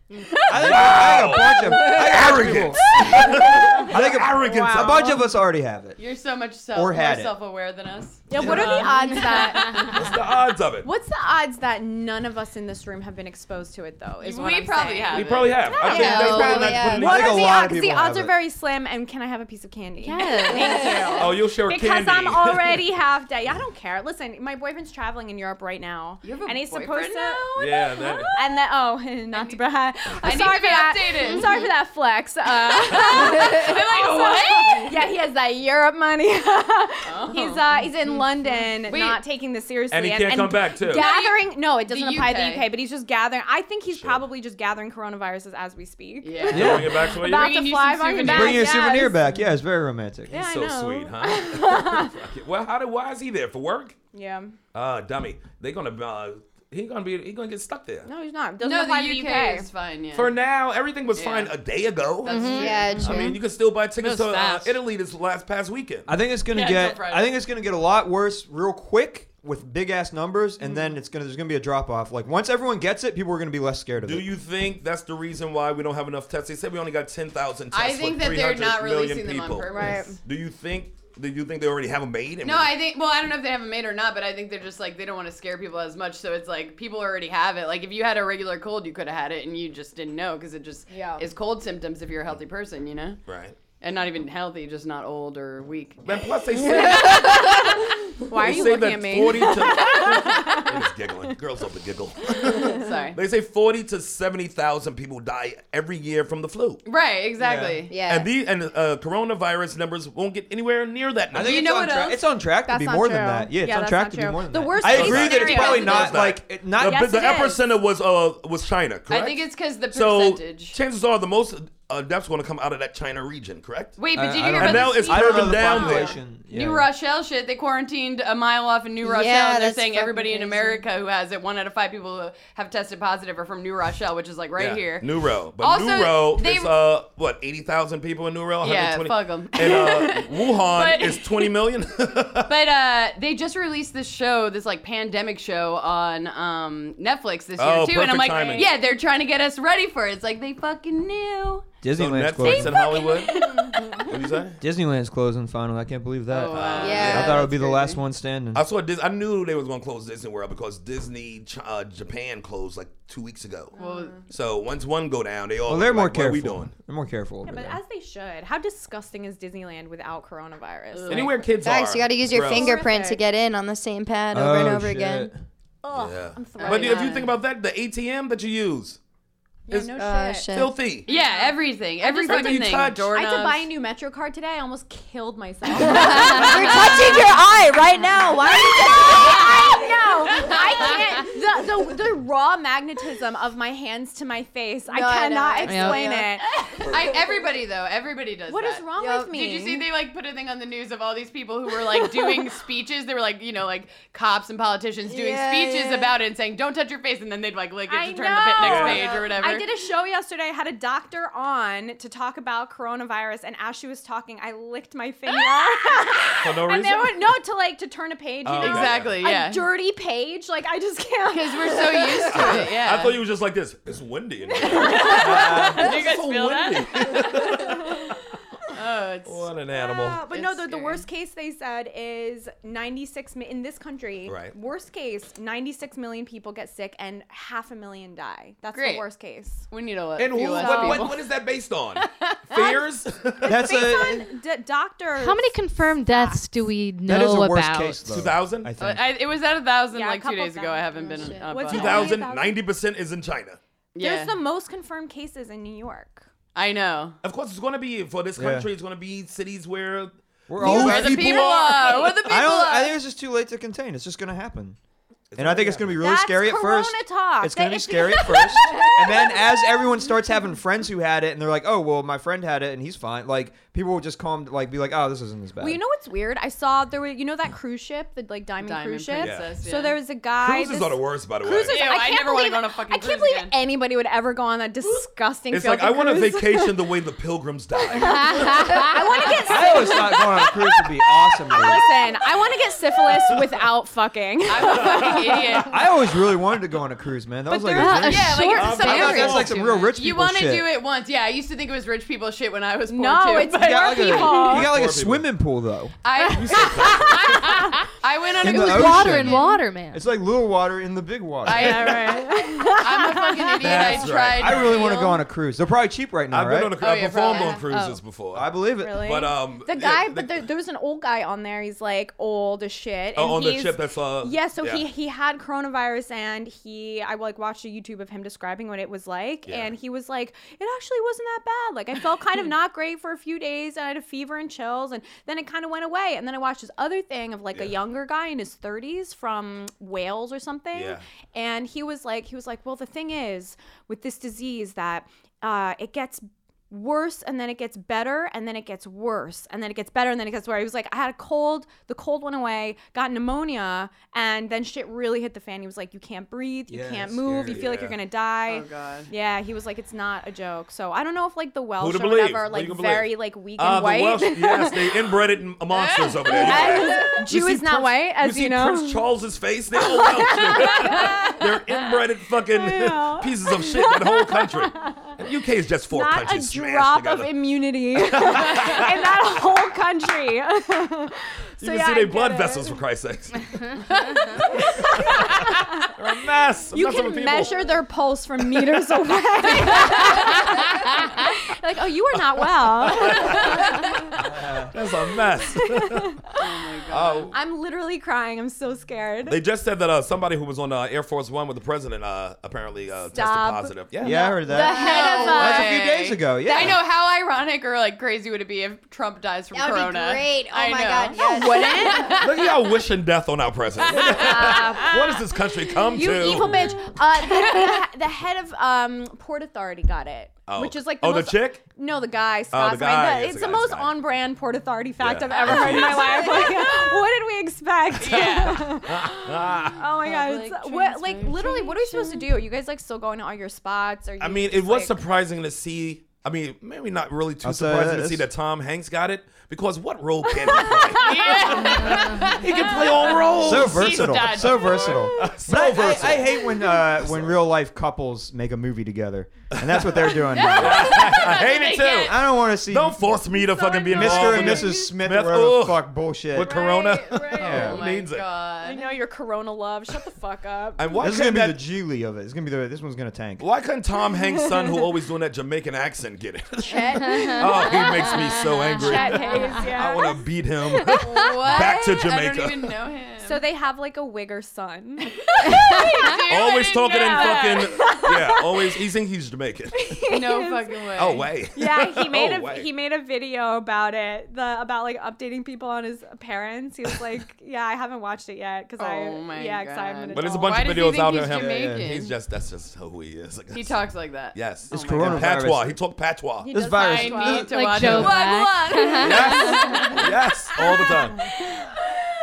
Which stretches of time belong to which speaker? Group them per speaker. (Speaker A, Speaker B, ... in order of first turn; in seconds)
Speaker A: 0.5-5.2, 8.3-8.9, 9.6-10.9, 15.1-17.5, 21.2-22.8, 27.6-28.3, 39.9-41.1, 43.9-44.2, 46.5-47.5, 50.3-54.0, 54.7-58.1, 60.1-66.1, 74.0-82.8, 93.3-93.6, 96.0-106.8, 108.0-111.9, 114.8-126.1, 134.6-142.5, 147.6-148.7, 151.9-154.6, 156.5-157.5, 158.5-166.7, 171.1-172.8, 175.9-179.0, 179.7-179.9, 180.5-181.1, 182.2-183.1, 208.6-209.2, 216.4-217.2, 218.4-219.2, 222.3-228.2, 229.3-230.3, 234.3-234.5, 240.2-243.6, 248.1-248.7, 251.6-253.6, 257.2-262.2, 265.3-266.1, 279.2-279.5, 280.4-281.8, 285.5-288.7, 294.7-295.3, 298.5-299.5, 304.5-305.3, 306.2-307.6, 313.6-314.8, 316.3-320.5, 323.1-324.9, 340.7-341.0, 357.4-358.0, 361.8-377.4, 378.0-379.0, 381.6-387.7, 389.6-391.2, 392.2-396.1, 396.9-397.3, 399.3-404.2, 412.2-416.8, 420.5-421.6, 422.5-424.0, 425.0-426.5, 428.1-429.9, 434.2-447.4, 449.5-449.8, 450.5-458.3, 460.8-461.6, 463.4-472.7, 476.3-480.0, 480.9-482.7, 490.1-493.8, 494.3-496.5, 499.0-501.5
Speaker B: 0.5-3.3, 3.8-6.0, 6.7-7.3, 16.7-18.3, 46.5-47.0, 48.2-50.3, 66.1-74.3, 107.4-107.8, 111.3-117.1, 124.1-126.9, 151.8-152.8, 154.6-158.6, 165.7-167.8, 174.3-175.4, 243.4-244.3, 247.1-249.1, 258.4-258.7, 260.5-261.5, 262.2-264.8, 265.4-275.8, 289.5-291.9, 295.7-300.7, 303.5-305.9, 308.4-312.0, 313.7-316.8, 318.3-319.1, 356.7-357.6, 394.2-394.7, 404.0-406.8, 437.4-438.3, 443.4-451.0, 452.1-453.1, 453.9-456.5, 457.4-457.8, 461.0-463.4, 491.3-491.9, 494.7-495.8, 496.5-497.9
Speaker C: 0.6-1.4, 6.0-9.5, 14.2-15.8, 26.2-28.4, 29.3-29.6, 30.2-31.7, 32.9-35.0, 37.1-37.6, 38.9-39.2, 40.9-42.7, 46.2-48.8, 58.6-60.4, 61.1-61.5, 62.2-63.3, 66.5-67.3, 77.7-80.1, 82.4-93.2, 93.8-96.3, 102.7-103.2, 106.9-107.9, 111.4-112.2, 115.1-115.9, 119.1-120.8, 124.0-125.8, 126.5-136.8, 138.6-141.5, 142.5-151.7, 152.4-154.1, 156.3-157.5, 163.8-164.2, 170.9-171.4, 176.6-177.3, 181.1-183.7, 196.8-209.7, 218.6-219.7, 221.3-223.2, 224.7-227.6, 228.7-229.4, 230.3-231.1, 238.7-239.0, 239.7-241.2, 242.0-242.4, 248.8-252.2, 253.9-254.4, 256.6-257.2, 260.6-262.9, 278.6-280.0, 281.7-283.6, 294.5-295.9, 297.9-304.5, 306.0-309.5, 311.4-315.2, 316.8-317.6, 358.4-359.1, 365.7-367.0, 396.4-397.3, 404.5-412.8, 413.8-415.4, 416.4-417.8, 425.3-426.9, 428.0-428.7, 429.7-432.1, 441.0-445.1, 450.4-452.2, 457.4-458.9, 470.9-473.4, 475.3-477.9, 480.1-481.3, 488.8-492.1, 493.5-495.5, 496.7-498.4
Speaker D: 3.2-3.9, 4.4-5.2, 8.3-10.1, 10.8-27.5, 28.2-49.3, 50.3-52.2, 54.1-54.5, 58.1-59.7, 79.7-80.2, 90.9-91.2, 96.8-97.5, 98.3-100.6, 112.6-116.3, 116.8-117.6, 125.8-126.1, 152.8-153.8, 163.8-164.2, 167.4-171.3, 172.4-173.2, 175.8-177.3, 179.7-187.2, 188.5-196.4, 198.5-199.8, 207.9-222.6, 224.6-225.5, 229.7-239.7, 240.5-241.2, 243.4-246.7, 249.9-252.7, 254.0-256.3, 266.0-269.8, 275.6-286.8, 287.9-290.8, 291.5-295.6, 297.5-298.4, 302.9-304.7, 306.2-307.7, 311.5-313.8, 318.8-365.0, 366.3-369.1, 369.7-371.8, 372.4-375.1, 375.9-382.8, 384.4-385.9, 386.7-394.1, 395.4-396.4, 397.3-399.4, 403.1-405.7, 411.1-412.2, 413.9-415.1, 415.9-429.2, 429.8-435.0, 440.3-443.2, 450.3-451.4, 453.4-454.9, 456.4-457.8, 458.6-461.1, 466.6-470.2, 470.7-471.1, 471.6-471.9, 473.2-476.2, 476.8-478.7, 479.7-480.9, 481.5-491.0, 496.4-501.8
Speaker E: 8.7-9.6, 20.0-21.3, 31.3-31.5, 38.0-38.7, 62.2-63.4, 64.0-64.8, 195.6-196.1, 245.2-248.3, 288.3-288.9, 297.7-299.8, 308.4-310.0, 317.7-318.0, 430.0-432.1, 441.8-442.4, 467.2-469.8, 475.6-476.0, 497.4-500.0
Speaker F: 15.8-17.2, 62.3-63.4, 107.9-108.3, 129.0-130.8, 156.8-158.0, 171.6-175.3, 179.9-180.8, 185.8-190.6, 194.9-197.2, 199.0-199.3, 205.1-206.2, 250.9-251.5, 317.2-317.6, 404.1-405.7, 409.5-412.2